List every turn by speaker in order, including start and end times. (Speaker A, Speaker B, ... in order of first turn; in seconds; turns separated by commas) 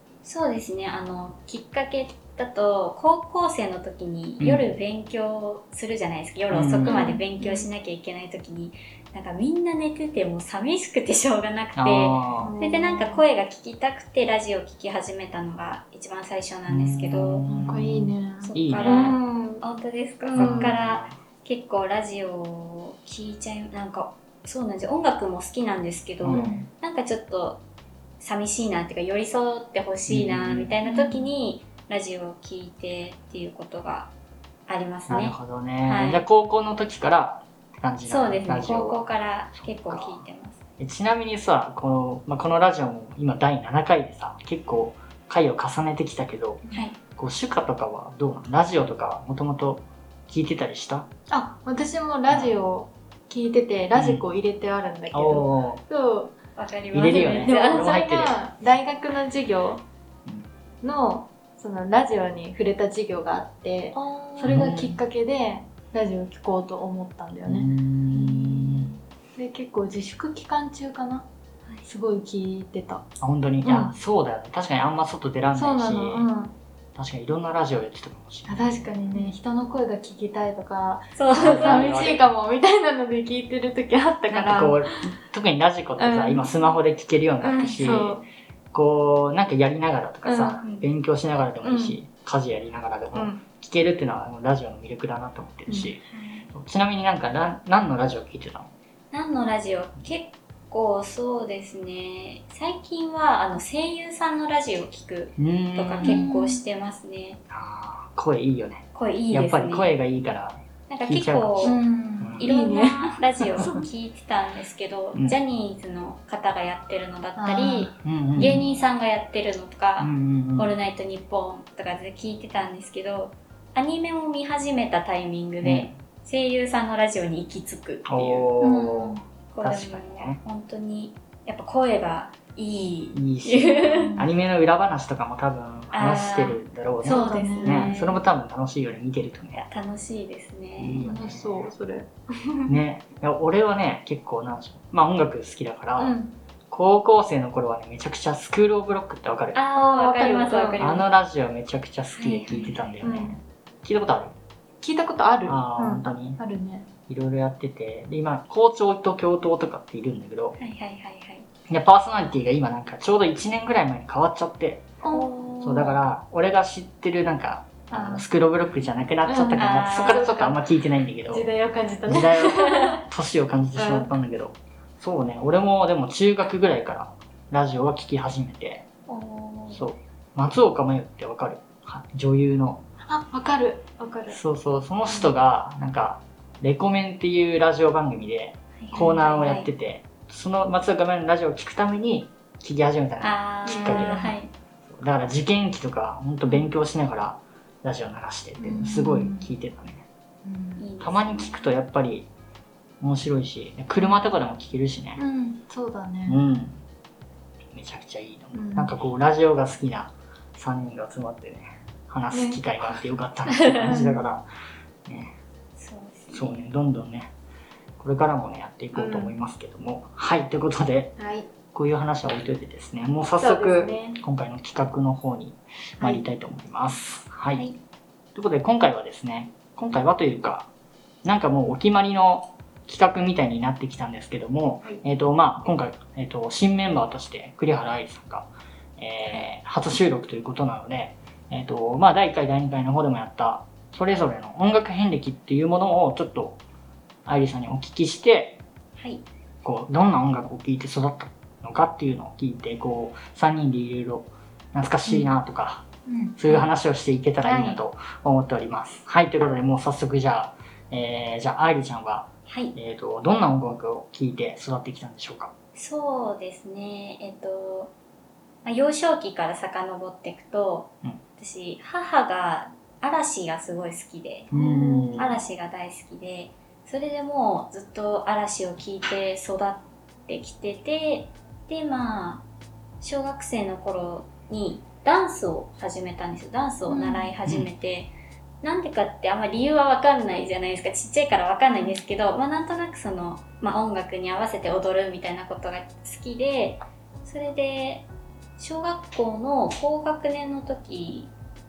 Speaker A: 0.2-17.4, Speaker B: 4.4-4.7, Speaker B: 6.5-7.2, Speaker C: 6.8-7.7, Speaker B: 11.8-12.5, Speaker C: 12.4-13.2, Speaker B: 16.7-19.2, Speaker C: 17.5-19.6, Speaker A: 18.4-27.6, Speaker C: 20.3-20.8, Speaker B: 20.4-21.1, Speaker B: 26.2-26.7, Speaker C: 26.3-26.6, Speaker A: 28.2-34.1, Speaker B: 30.1-30.7, Speaker C: 30.8-31.3, Speaker A: 34.7-36.2, Speaker B: 35.1-39.0, Speaker A: 38.1-40.6, Speaker B: 39.5-40.2, Speaker B: 40.8-46.6, Speaker A: 46.7-47.0, Speaker B: 47.2-51.1, Speaker C: 51.3-56.4, Speaker B: 52.3-52.6, Speaker B: 53.9-54.2, Speaker B: 55.1-55.8, Speaker A: 56.6-57.9, Speaker B: 56.9-58.4, Speaker C: 57.0-59.8, Speaker C: 60.8-71.2, Speaker A: 63.9-64.7, Speaker B: 64.5-65.0, Speaker B: 67.5-68.9, Speaker C: 71.8-73.0, Speaker B: 73.2-76.3, Speaker C: 73.6-74.0, Speaker C: 75.5-76.5, Speaker B: 77.0-78.9, Speaker C: 78.5-85.1, Speaker A: 81.2-82.1, Speaker B: 81.3-82.3, Speaker B: 84.3-88.2, Speaker C: 86.0-86.5, Speaker C: 87.4-88.2, Speaker A: 87.5-88.1, Speaker B: 88.7-98.7, Speaker C: 90.2-90.6, Speaker C: 91.6-92.0, Speaker C: 93.1-93.4, Speaker C: 95.7-96.0, Speaker A: 96.0-96.5, Speaker A: 99.1-107.4, Speaker B: 105.4-106.3, Speaker C: 106.0-106.6, Speaker B: 107.5-112.5, Speaker A: 109.0-109.9, Speaker A: 110.9-111.8, Speaker C: 111.6-113.8, Speaker A: 112.4-134.2, Speaker C: 117.4-118.6, Speaker B: 118.0-118.7, Speaker B: 120.0-120.7, Speaker B: 125.6-126.0, Speaker B: 128.1-130.4, Speaker C: 128.6-129.2, Speaker B: 133.1-139.7, Speaker C: 133.8-134.3, Speaker A: 135.9-138.2, Speaker C: 137.0-138.1, Speaker A: 139.6-141.1, Speaker B: 140.8-141.7, Speaker C: 141.0-142.8, Speaker B: 142.7-146.2, Speaker C: 146.0-146.3, Speaker B: 146.7-149.6, Speaker A: 149.6-151.1, Speaker C: 149.8-150.9, Speaker B: 150.8-154.4, Speaker A: 152.2-152.8, Speaker C: 153.0-153.3, Speaker C: 154.8-156.9, Speaker B: 155.4-156.4, Speaker B: 157.1-160.6, Speaker A: 160.6-161.5, Speaker B: 161.7-165.0, Speaker C: 165.0-166.0, Speaker A: 165.1-165.6, Speaker B: 165.6-171.5, Speaker C: 167.9-168.3, Speaker C: 169.3-170.7, Speaker A: 169.6-170.4, Speaker C: 171.3-173.0, Speaker B: 172.1-178.9, Speaker C: 173.8-174.1, Speaker A: 179.1-179.8, Speaker B: 179.7-182.8, Speaker C: 183.0-184.4, Speaker B: 184.3-200.1, Speaker A: 188.8-189.7, Speaker A: 193.2-194.5, Speaker C: 193.7-194.4, Speaker C: 198.6-199.5, Speaker C: 200.4-200.8, Speaker A: 200.8-201.7, Speaker B: 201.0-202.3, Speaker B: 203.0-205.2, Speaker C: 205.2-206.4, Speaker B: 206.3-206.8, Speaker B: 207.7-214.5, Speaker C: 208.5-209.0, Speaker C: 212.3-212.6, Speaker A: 213.5-214.1, Speaker C: 213.8-214.2, Speaker B: 215.1-215.4, Speaker A: 215.8-216.7, Speaker B: 216.3-217.3, Speaker B: 218.0-221.2, Speaker C: 218.9-219.3, Speaker C: 221.2-221.5, Speaker B: 221.7-227.7, Speaker C: 223.4-224.2, Speaker C: 226.0-226.3, Speaker B: 228.3-230.7, Speaker B: 231.2-238.5, Speaker B: 239.0-246.6, Speaker B: 247.3-248.6, Speaker A: 249.0-249.2, Speaker B: 249.6-255.8, Speaker C: 256.1-256.6, Speaker B: 256.4-265.5, Speaker C: 257.4-257.8, Speaker A: 262.5-262.8, Speaker A: 265.8-267.9, Speaker A: 268.6-274.5, Speaker B: 274.5-275.4, Speaker C: 274.5-275.3, Speaker A: 275.2-282.4, Speaker A: 283.0-298.1, Speaker C: 286.9-287.3, Speaker A: 298.6-301.3